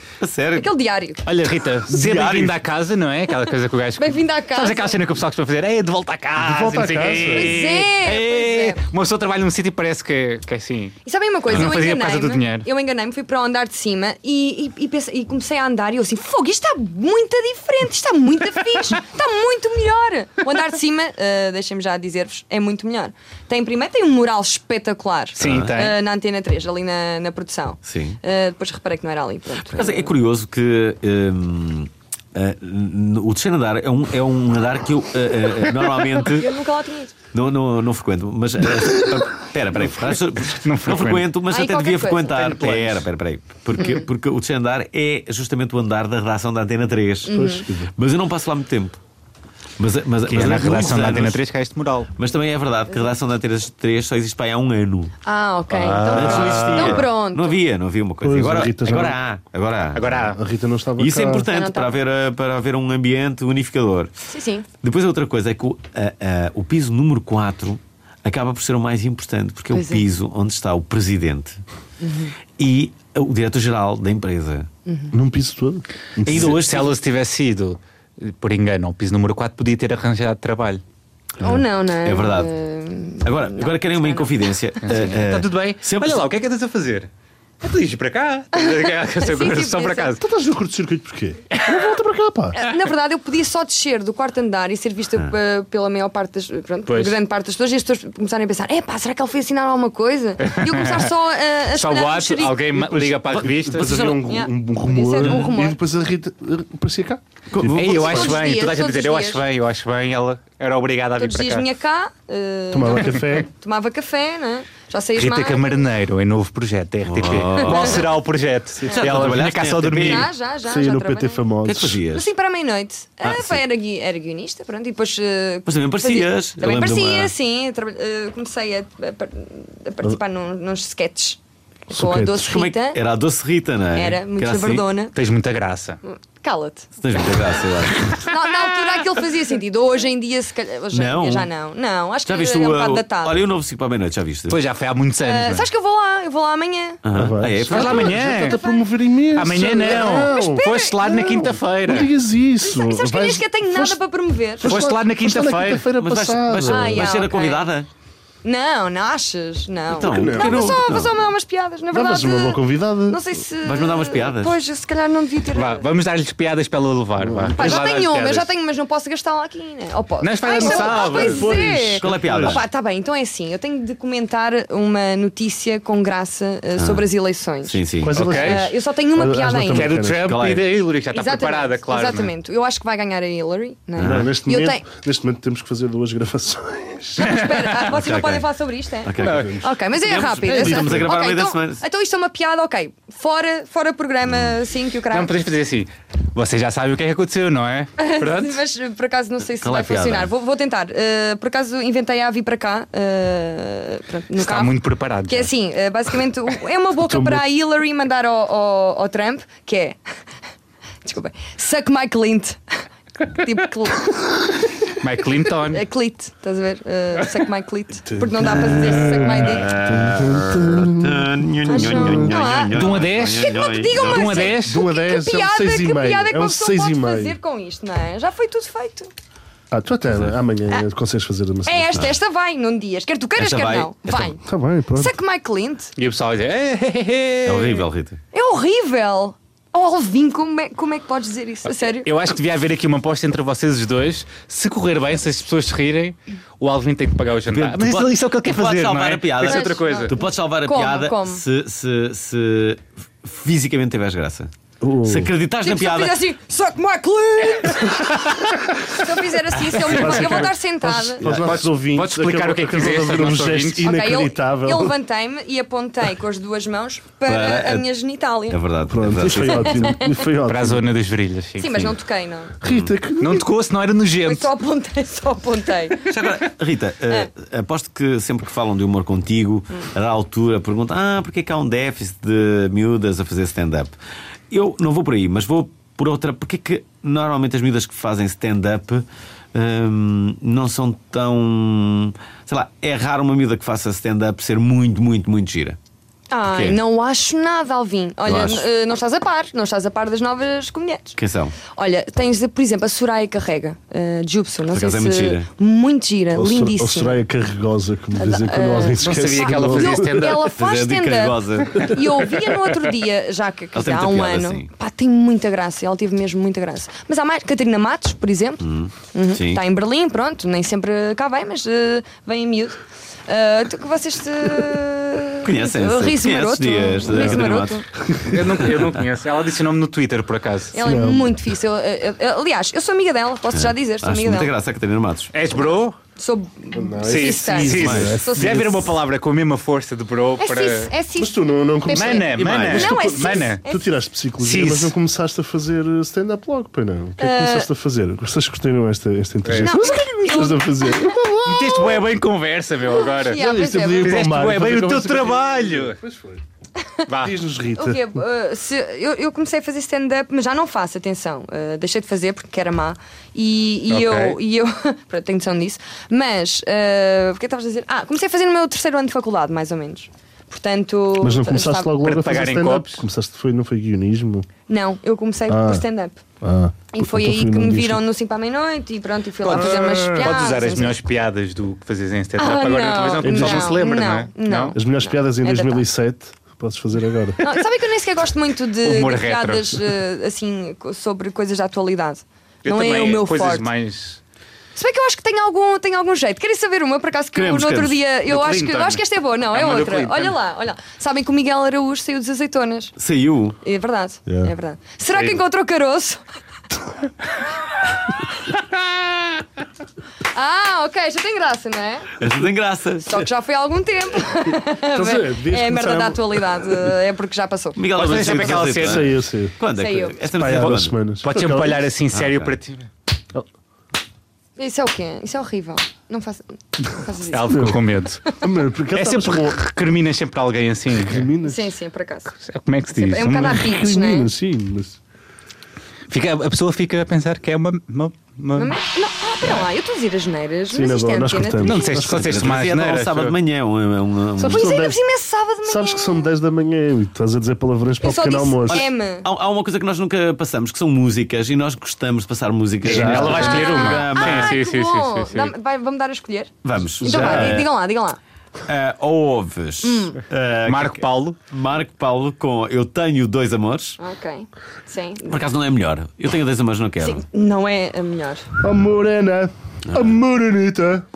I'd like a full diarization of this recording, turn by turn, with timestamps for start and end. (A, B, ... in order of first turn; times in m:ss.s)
0:00.2-0:00.7 A
0:00.6-0:01.2 B
0:01.2-0:11.0 C
0:01.9-0:02.6 A
0:04.0-0:05.0 B
0:06.4-0:07.5 D
0:07.2-0:08.8 B
0:11.0-0:30.1 B
0:11.5-0:12.6 C
0:25.4-0:26.0 C
0:25.4-0:25.7 A
0:27.8-0:28.2 A
0:29.7-0:36.5 A
0:36.2-0:37.1 B
0:37.3-0:47.3 A
0:40.4-0:41.3 C
0:41.5-0:43.0 B
0:43.7-0:44.0 B
0:47.3-0:47.6 B
0:47.3-0:47.9 D
0:47.9-0:49.0 A
0:49.8-0:51.4 A
0:50.2-0:52.1 C
0:52.2-0:55.1 A
0:52.9-0:53.1 B
0:55.2-0:57.6 B
0:55.7-0:57.0 C
0:56.1-1:00.2 A
0:58.2-0:59.2 D
0:59.9-1:00.4 C
1:00.3-1:01.5 D
1:01.0-1:04.1 A
1:01.5-1:02.0 B
1:04.3-1:04.6 B
1:04.8-1:11.6 A
1:09.7-1:10.0 B
1:12.0-1:12.3 B
1:12.6-1:14.7 A
1:14.9-1:15.1 B
1:15.1-1:16.6 D
1:16.2-1:16.9 A
1:16.2-1:20.8 C
1:21.4-1:25.1 B
1:22.0-1:22.5 A
1:23.2-1:26.2 A
1:24.8-1:27.1 C
1:27.6-1:30.2 C
1:28.5-1:30.1 B
1:30.2-1:32.6 D
1:32.5-1:42.6 B
1:36.9-1:37.2 C
1:40.4-1:41.1 C
1:41.7-1:44.1 C
1:42.7-1:48.3 D
1:43.8-1:44.2 A
1:44.2-1:45.8 B
1:47.5-1:48.3 A
1:47.7-1:51.6 C
1:47.8-1:49.4 B
1:51.2-1:55.8 B
1:52.7-1:53.5 D
1:55.2-2:00.3 C
1:57.0-1:58.0 A
1:57.6-1:58.0 B
1:58.8-1:59.3 D
1:59.0-2:00.3 A
2:00.0-2:01.4 B
2:00.6-2:02.0 D
2:01.6-2:02.3 A
2:02.1-2:11.4 B
2:03.2-2:03.6 A
2:05.6-2:07.3 A
2:11.9-2:12.5 D
2:11.9-2:13.0 B
2:12.4-2:14.8 A
2:13.9-2:15.2 B
2:15.1-2:16.0 C
2:16.0-2:16.9 B
2:17.0-2:18.1 A
2:18.1-2:19.0 C
2:18.1-2:23.5 B
2:20.9-2:21.5 A
2:22.2-2:24.6 A
2:24.5-2:25.7 C
2:25.2-2:27.0 B
2:27.0-2:28.2 A
2:27.1-2:30.6 D
2:27.7-2:28.8 B
2:27.7-2:28.6 C
2:29.3-2:32.1 C
2:29.8-2:31.6 B
2:31.8-2:34.0 D
2:32.6-2:34.7 B
2:34.6-2:37.2 D
2:34.6-2:35.9 C
2:36.0-2:37.9 A
2:36.7-2:37.7 B
2:38.4-2:45.9 B
2:39.9-2:41.2 A
2:40.0-2:40.8 D
2:41.9-2:43.3 D
2:43.6-2:44.6 A
2:45.5-2:48.5 C
2:47.2-2:47.6 D
2:47.5-2:59.9 B
2:50.2-2:51.4 C
2:50.5-2:52.6 D
2:52.0-2:52.6 A
2:56.8-2:57.0 A
2:57.6-2:58.2 A
2:58.0-3:00.2 D
2:58.1-2:58.7 C
2:59.7-3:02.3 C
3:00.1-3:00.6 A
3:01.1-3:04.8 B
3:04.0-3:04.3 A
3:04.0-3:07.3 D
3:07.2-3:15.4 B
3:07.2-3:07.9 C
3:07.9-3:08.4 A
3:09.0-3:11.8 A
3:09.2-3:09.6 C
3:09.2-3:09.6 D
3:10.6-3:11.1 D
3:15.1-3:18.6 C
3:18.0-3:24.7 B
3:19.6-3:20.3 A
3:24.4-3:25.5 C
3:25.3-3:30.0 B
3:27.0-3:27.4 D
3:31.0-3:32.6 B
3:33.2-3:34.2 B
3:34.9-3:35.8 C
3:35.4-3:39.7 B
3:38.0-3:42.3 D
3:38.8-3:44.5 A
3:41.6-3:49.1 B
3:42.7-3:44.8 C
3:44.6-3:47.4 D
3:49.7-3:52.1 D
3:51.6-3:54.4 B
3:53.4-3:54.3 A
3:54.4-3:55.2 D
3:55.0-3:55.9 B
3:56.0-3:57.8 C
3:57.4-3:58.2 A
3:58.3-4:02.1 B
4:02.0-4:10.2 C
4:07.5-4:14.5 A
4:09.4-4:11.4 B
4:14.8-4:15.3 D
4:15.0-4:16.2 A
4:15.6-4:21.2 B
4:19.7-4:20.5 C
4:19.8-4:24.9 D
4:21.2-4:21.6 A
4:21.3-4:23.9 C
4:23.8-4:28.6 B
4:27.2-4:27.9 A
4:28.5-4:29.9 A
4:28.8-4:30.9 D
4:29.4-4:30.3 B
4:30.4-4:31.9 C
4:31.6-4:32.5 B
4:32.6-4:33.4 D
4:32.6-4:32.9 A
4:33.2-4:34.4 C
4:34.2-4:36.3 B
4:36.1-4:43.9 A
4:44.5-4:55.8 A
4:56.3-5:07.2 B
4:58.2-4:58.6 A
5:01.2-5:01.6 A
5:04.7-5:05.5 A
5:06.3-5:10.1 D
5:08.1-5:27.8 B
5:09.0-5:10.5 C
5:10.3-5:12.1 A
5:13.7-5:14.7 A
5:18.6-5:19.6 A
5:25.4-5:28.8 A
5:28.2-5:30.7 C
5:30.7-5:34.5 B
5:30.8-5:31.3 D
5:33.5-5:35.3 A
5:35.3-5:36.0 C
5:36.2-5:38.8 B
5:36.7-5:38.6 D
5:37.0-5:40.9 C
5:37.7-5:38.1 A
5:40.4-5:43.9 B
5:41.2-5:52.0 D
5:41.9-5:43.6 C
5:42.4-5:42.9 A
5:44.4-5:44.9 C
5:47.2-5:47.7 B
5:49.4-5:49.7 C
5:49.6-5:51.8 B
5:51.5-5:53.4 C
5:53.0-5:54.3 B
5:53.3-5:56.4 D
5:54.0-5:56.0 C
5:57.1-5:57.3 C
5:57.1-5:58.2 D
5:57.7-6:11.9 B
6:03.9-6:04.4 C
6:11.2-6:14.5 D
6:12.0-6:13.0 C
6:14.7-6:16.2 B
6:15.5-6:15.8 D
6:16.4-6:18.0 D
6:16.9-6:21.0 B
6:19.4-6:24.8 C
6:19.5-6:20.5 D
6:22.4-6:25.8 B
6:23.2-6:23.8 D
6:24.7-6:27.5 D
6:27.4-6:33.7 B
6:28.8-6:29.8 C
6:32.6-6:34.2 C
6:34.8-6:42.9 B
6:37.3-6:38.0 A
6:38.3-6:40.4 C
6:43.0-6:43.6 A
6:43.6-6:46.2 B
6:44.3-6:44.5 D
6:50.3-6:52.1 B
6:52.2-6:53.2 A
6:53.0-6:57.8 B
6:54.9-6:56.7 D
6:57.8-7:01.0 A
6:57.9-6:59.1 C
6:58.6-6:59.6 D
6:59.7-7:00.2 B
7:00.3-7:01.8 D
7:01.2-7:02.9 C
7:02.1-7:02.5 A
7:04.6-7:07.8 B
7:07.3-7:08.2 C
7:07.5-7:07.8 D
7:08.4-7:09.6 D
7:08.9-7:11.3 C
7:10.9-7:11.7 D
7:11.4-7:12.3 B
7:12.4-7:13.6 C
7:12.9-7:14.3 B
7:13.4-7:15.0 D
7:16.1-7:18.8 C
7:18.5-7:22.0 B
7:20.7-7:22.4 D
7:21.6-7:23.4 C
7:22.1-7:24.7 A
7:24.4-7:26.3 B
7:24.4-7:25.0 D
7:25.6-7:28.8 D
7:28.0-7:29.2 B
7:28.7-7:34.5 A
7:32.8-7:35.5 C
7:32.8-7:33.5 D
7:33.2-7:38.2 B
7:36.6-7:37.7 A
7:37.0-7:37.6 D
7:38.6-7:44.0 A
7:39.8-7:40.2 B
7:40.6-7:41.4 C
7:44.0-7:45.4 B
7:45.3-7:47.2 A
7:47.0-7:48.5 B
7:48.6-7:51.0 D